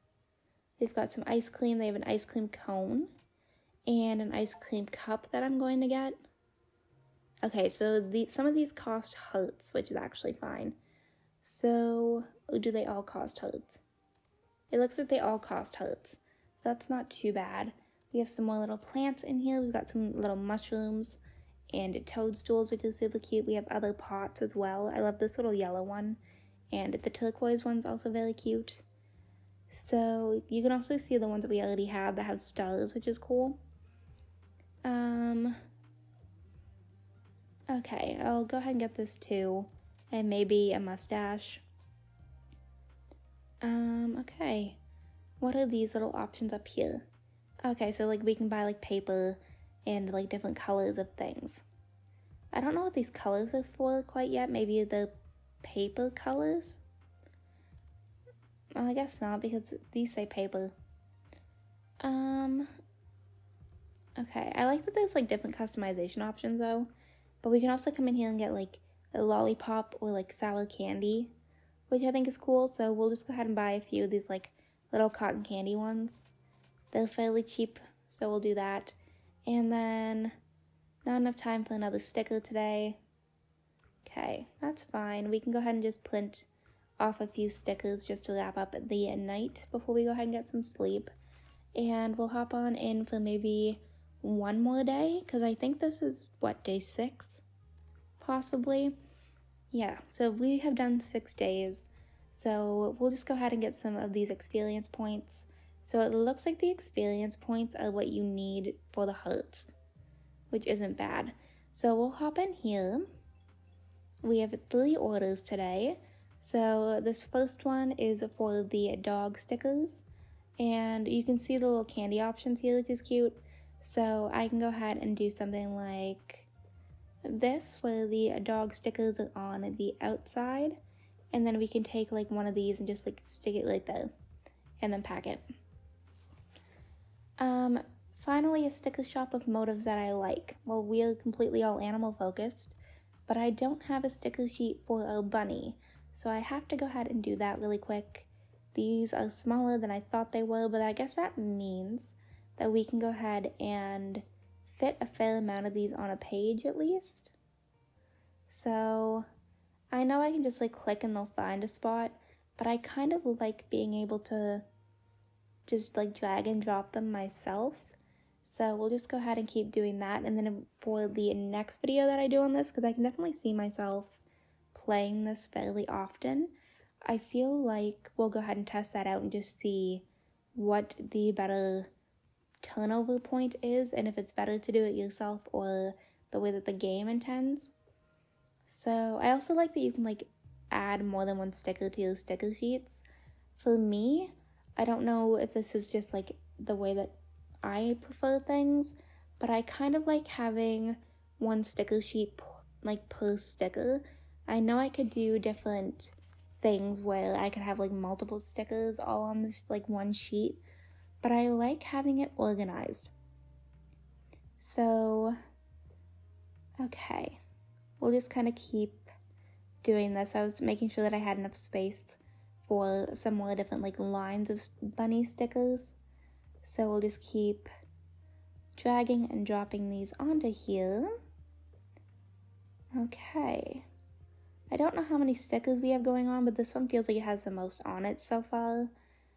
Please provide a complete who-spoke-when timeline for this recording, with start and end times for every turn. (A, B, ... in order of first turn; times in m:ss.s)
0:00.8-0:03.1 A
0:03.9-0:06.2 A
0:07.4-0:10.8 A
0:11.4-0:13.8 A
0:14.7-0:21.2 A
0:21.7-0:26.2 A
0:26.7-0:28.8 A
0:29.7-0:33.6 A
0:34.8-0:35.6 A
0:37.7-0:41.6 A
0:43.6-0:44.8 A
0:45.4-0:47.1 A
0:47.6-0:51.6 A
0:52.5-0:56.8 A
0:58.8-1:00.7 A
1:02.0-1:02.7 A
1:04.2-1:06.9 A
1:07.4-1:11.3 A
1:11.9-1:16.3 A
1:16.9-1:20.3 A
1:21.0-1:23.0 A
1:24.0-1:26.5 A
1:27.0-1:31.1 A
1:31.8-1:37.4 A
1:38.2-1:39.0 A
1:39.7-1:49.8 A
1:50.5-1:53.1 A
1:54.2-2:00.0 A
2:00.6-2:06.5 A
2:07.2-2:10.8 A
2:11.3-2:14.1 A
2:14.8-2:15.4 A
2:17.4-2:22.8 A
2:23.3-2:37.3 A
2:38.5-2:39.3 A
2:39.9-2:44.6 A
2:45.7-2:54.2 A
2:54.7-2:56.6 A
2:57.1-3:01.9 A
3:02.6-3:07.7 A
3:08.7-3:13.0 A
3:13.6-3:30.6 A
3:31.2-3:33.1 A
3:34.6-3:35.4 A
3:36.8-3:37.4 A
3:38.0-3:39.1 A
3:39.8-3:46.0 A
3:46.6-3:47.7 A
3:48.8-3:51.2 A
3:52.9-3:53.9 A
3:54.7-3:58.9 A